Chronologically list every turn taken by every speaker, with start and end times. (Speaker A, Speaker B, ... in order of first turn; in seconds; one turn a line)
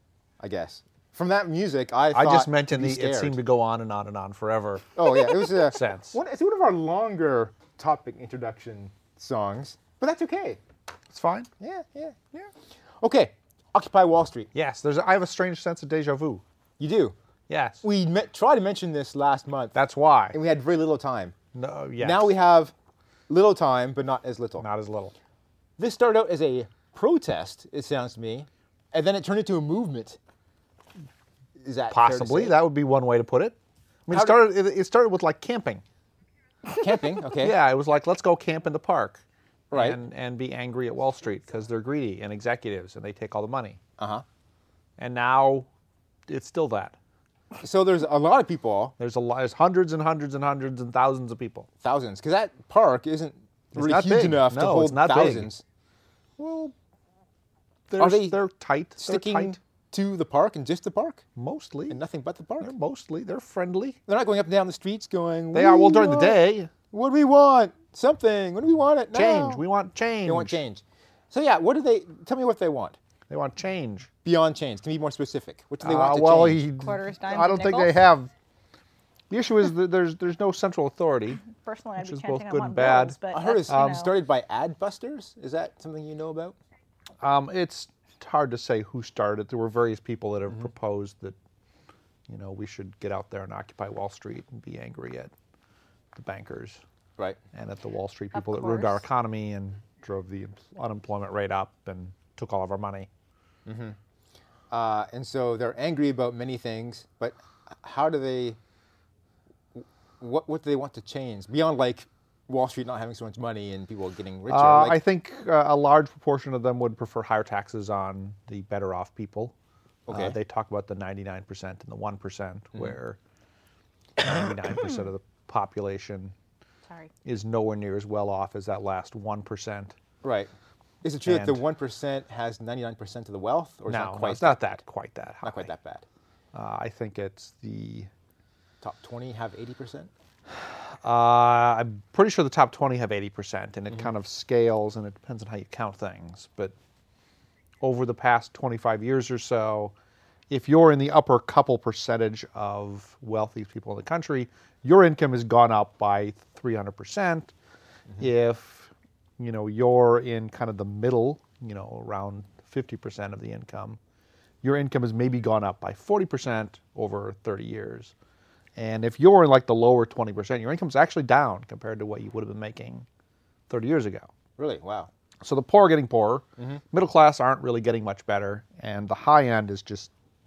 Speaker A: 0.4-3.4
Speaker B: 2.1-5.0
Speaker A: 5.0-10.6
Speaker B: 5.6-6.2
Speaker B: 11.1-11.5
Speaker A: 11.6-12.5
Speaker A: 13.0-14.5
Speaker B: 14.5-16.4
Speaker A: 16.8-17.1
Speaker B: 17.5-17.8
Speaker A: 17.8-19.8
Speaker B: 19.8-20.4
Speaker A: 20.3-21.4
Speaker B: 21.5-22.3
Speaker A: 22.0-22.7
Speaker A: 23.3-24.7
Speaker B: 24.6-25.1
Speaker A: 25.8-30.2
Speaker A: 31.6-32.6
Speaker B: 31.9-33.6
Speaker B: 34.1-35.8
Speaker A: 34.1-34.4
Speaker A: 36.7-37.6
Speaker B: 37.4-43.8
Speaker A: 39.7-40.0
Speaker A: 44.0-44.2
Speaker B: 45.0-45.7
Speaker B: 46.3-46.9
Speaker A: 47.6-49.0
Speaker B: 49.0-51.7
Speaker A: 51.8-55.6
Speaker B: 53.7-55.5
Speaker B: 56.4-56.7
Speaker B: 57.9-59.6
Speaker A: 58.0-58.4
Speaker A: 59.0-61.2
Speaker B: 61.4-62.0
Speaker A: 61.9-62.7
Speaker B: 62.6-64.0
Speaker A: 64.1-69.7
Speaker B: 65.5-66.7
Speaker B: 69.1-70.6
Speaker A: 70.3-73.0
Speaker B: 73.3-74.1
Speaker A: 74.2-76.6
Speaker B: 75.8-78.3
Speaker C: 76.7-78.0
Speaker B: 79.3-81.4
Speaker C: 81.5-84.1
Speaker B: 82.0-83.2
Speaker A: 83.3-86.6
Speaker B: 83.7-84.0
Speaker B: 87.2-91.4
Speaker B: 92.3-95.3
Speaker B: 96.2-96.8
Speaker B: 97.5-103.1
Speaker C: 98.4-99.0
Speaker A: 103.7-104.0
Speaker A: 104.7-108.6
Speaker A: 109.8-115.0
Speaker B: 114.5-119.5
Speaker A: 120.1-120.4
Speaker B: 120.1-123.2
Speaker B: 124.2-126.3
Speaker B: 127.2-129.9
Speaker A: 130.2-130.5
Speaker A: 131.0-134.8
Speaker B: 131.2-131.6
Speaker B: 133.9-135.7
Speaker A: 135.4-136.1
Speaker B: 136.5-138.1
Speaker A: 138.8-140.1
Speaker B: 140.5-146.7
Speaker B: 147.8-149.9
Speaker B: 150.5-157.5
Speaker B: 158.2-164.0
Speaker B: 164.6-168.1
Speaker B: 168.8-173.1
Speaker B: 173.7-174.3
Speaker A: 174.6-175.1
Speaker B: 175.4-180.1
Speaker A: 176.6-176.8